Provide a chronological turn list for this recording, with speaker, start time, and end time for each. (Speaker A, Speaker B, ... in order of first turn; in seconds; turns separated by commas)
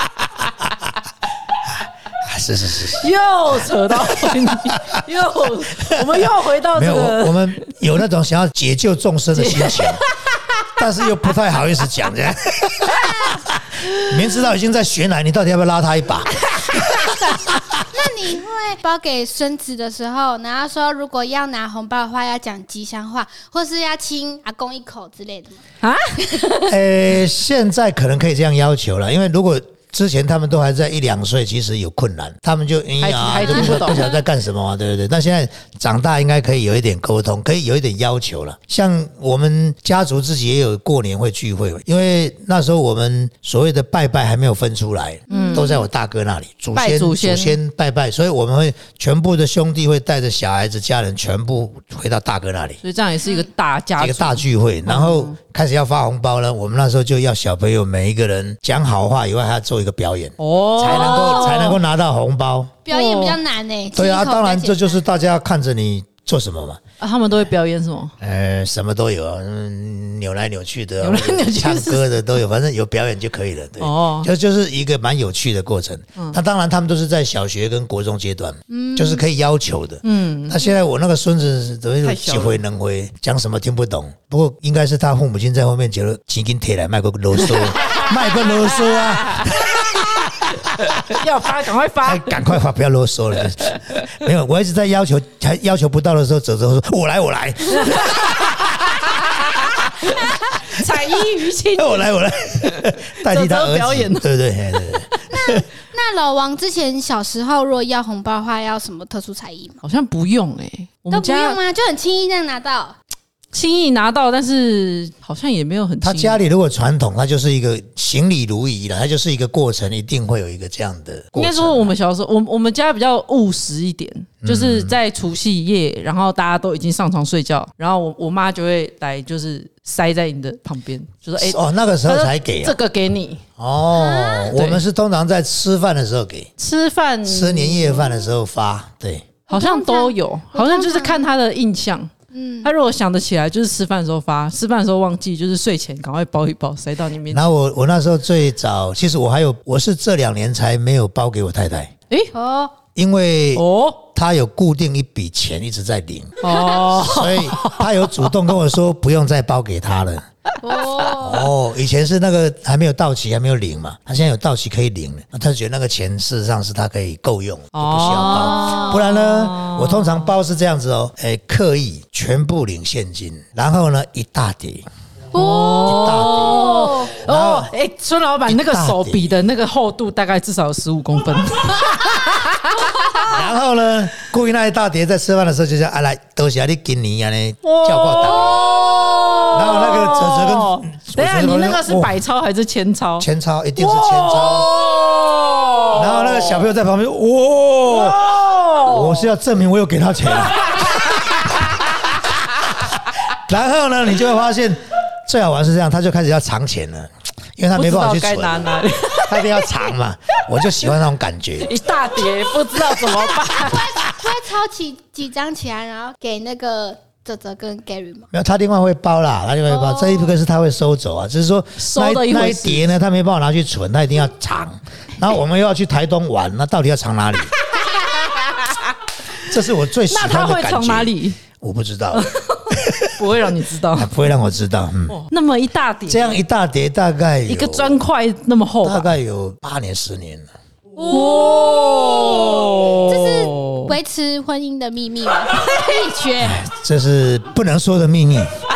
Speaker A: 2.2-5.0, Speaker B: 3.0-7.7, Speaker A: 5.8-10.0, Speaker B: 9.3-10.7, Speaker A: 10.8-17.0, Speaker B: 13.0-13.2, Speaker B: 16.6-17.5, Speaker C: 17.7-25.6, Speaker B: 25.8-26.2, Speaker C: 26.3-26.6, Speaker A: 26.7-52.8, Speaker B: 33.0-34.0, Speaker B: 45.3-45.8, Speaker C: 45.3-45.8, Speaker B: 46.7-47.6, Speaker B: 52.8-55.4, Speaker A: 54.0-62.8, Speaker B: 60.4-61.8, Speaker C: 60.9-61.6, Speaker C: 62.9-65.0, Speaker B: 62.9-63.4, Speaker A: 63.9-66.8, Speaker B: 67.0-68.1, Speaker A: 68.2-91.2, Speaker B: 71.0-72.0, Speaker B: 73.8-74.3, Speaker C: 78.7-79.2, Speaker B: 80.0-80.7, Speaker B: 82.0-82.6, Speaker B: 87.4-92.5, Speaker A: 92.0-98.9, Speaker B: 97.8-102.1, Speaker A: 101.8-105.6, Speaker B: 102.6-104.3, Speaker C: 105.3-109.8, Speaker B: 109.8-111.6, Speaker C: 111.1-113.0, Speaker B: 113.5-116.4, Speaker A: 116.0-121.9, Speaker B: 121.3-133.4, Speaker A: 124.4-125.0, Speaker A: 131.4-132.8, Speaker A: 133.6-136.5, Speaker C: 133.9-134.5, Speaker B: 134.5-134.8, Speaker B: 136.6-138.1, Speaker A: 137.2-139.3, Speaker C: 139.5-141.3, Speaker B: 139.5-147.4, Speaker C: 142.3-142.7, Speaker A: 147.3-151.9, Speaker C: 152.3-152.8, Speaker A: 152.9-160.2, Speaker B: 153.5-154.0, Speaker B: 156.4-158.3, Speaker C: 160.6-161.5, Speaker B: 160.7-161.1, Speaker A: 161.2-174.8, Speaker B: 167.7-170.3, Speaker C: 168.2-169.0, Speaker B: 175.3-183.3, Speaker C: 175.3-177.1, Speaker A: 175.8-176.7, Speaker A: 177.2-177.7, Speaker A: 178.5-179.3, Speaker A: 183.3-188.8, Speaker B: 187.6-196.6, Speaker A: 189.5-192.1, Speaker A: 193.2-194.7, Speaker A: 195.9-201.9, Speaker B: 197.9-199.3, Speaker B: 200.5-202.1, Speaker A: 203.3-211.8, Speaker B: 207.7-209.8, Speaker B: 211.6-213.9, Speaker C: 213.2-218.3, Speaker A: 218.3-227.5, Speaker C: 219.7-220.3, Speaker B: 221.8-222.9, Speaker B: 227.7-228.9, Speaker A: 229.4-235.2, Speaker B: 230.1-231.4, Speaker B: 232.1-234.1, Speaker B: 235.1-236.4, Speaker A: 236.1-238.0, Speaker B: 237.5-239.1, Speaker A: 238.8-240.5, Speaker B: 241.0-243.9, Speaker C: 241.0-246.6, Speaker A: 246.4-248.5